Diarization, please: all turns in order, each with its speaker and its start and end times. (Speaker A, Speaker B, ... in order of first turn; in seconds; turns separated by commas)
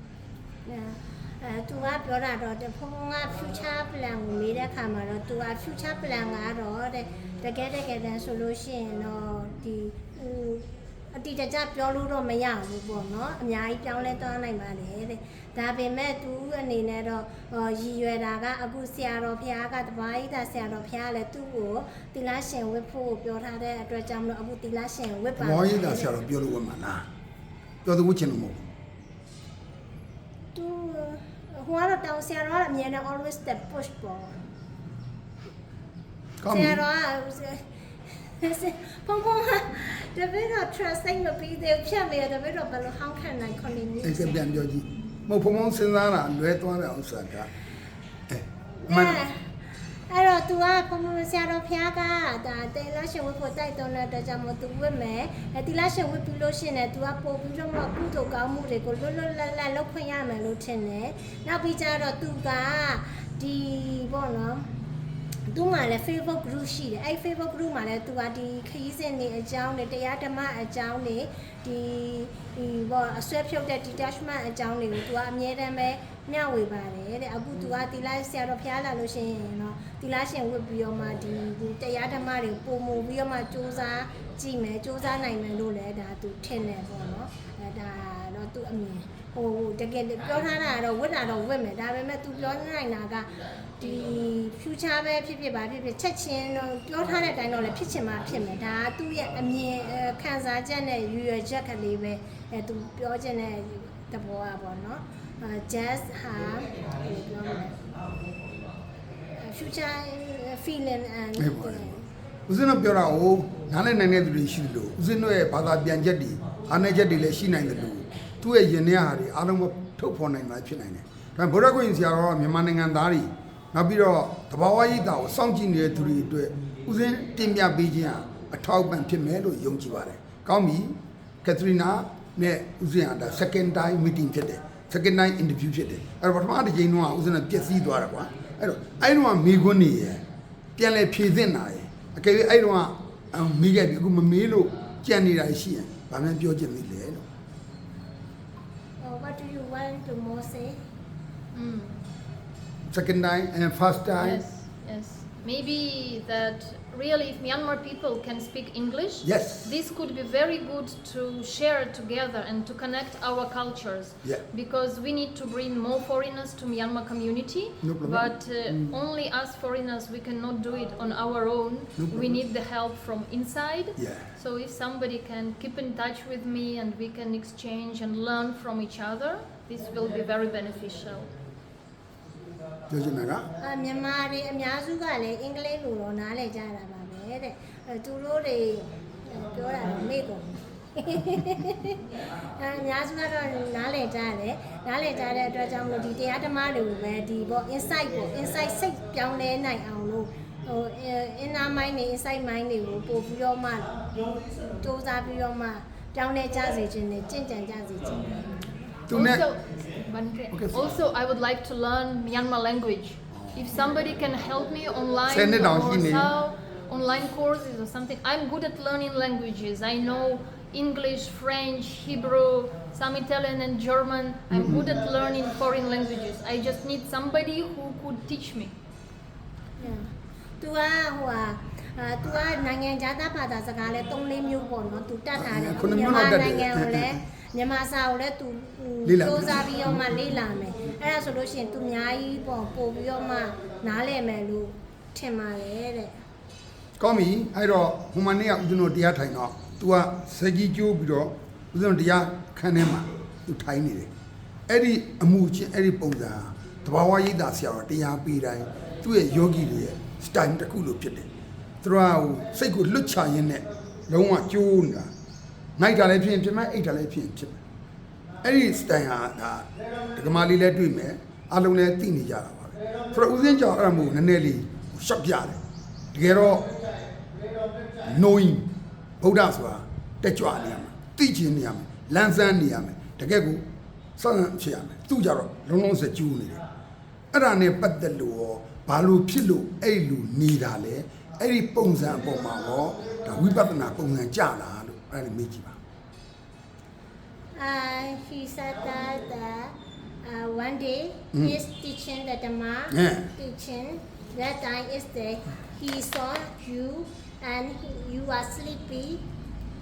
Speaker A: 0.7-26.2, Speaker B: 25.4-27.0, Speaker B: 27.8-28.6, Speaker A: 30.5-34.4, Speaker B: 36.4-36.8, Speaker A: 36.5-37.6, Speaker A: 38.4-44.4, Speaker B: 44.0-47.5, Speaker B: 48.3-49.2, Speaker A: 48.8-49.5, Speaker A: 50.1-64.7, Speaker A: 65.5-107.8, Speaker A: 109.4-112.1, Speaker B: 111.4-140.2, Speaker B: 140.8-147.2, Speaker A: 149.0-150.8, Speaker C: 151.5-152.0, Speaker B: 152.9-154.4, Speaker C: 154.2-181.3, Speaker B: 159.2-159.7, Speaker B: 167.8-169.0, Speaker B: 172.0-172.4, Speaker B: 174.0-174.3, Speaker B: 182.9-183.5, Speaker A: 183.6-204.0, Speaker A: 204.8-209.0, Speaker B: 209.1-209.4, Speaker C: 209.1-228.7, Speaker B: 210.5-210.9, Speaker B: 213.3-213.7, Speaker B: 215.3-216.3, Speaker B: 224.5-224.9, Speaker A: 229.8-246.2, Speaker B: 235.3-237.2, Speaker B: 239.0-240.0, Speaker B: 247.0-254.1, Speaker B: 254.7-261.3, Speaker B: 261.8-265.1, Speaker B: 265.8-267.6, Speaker B: 268.4-275.6, Speaker B: 276.1-276.7, Speaker B: 278.0-283.6, Speaker B: 284.2-286.6, Speaker B: 287.3-295.8, Speaker A: 297.6-309.2, Speaker B: 302.9-303.3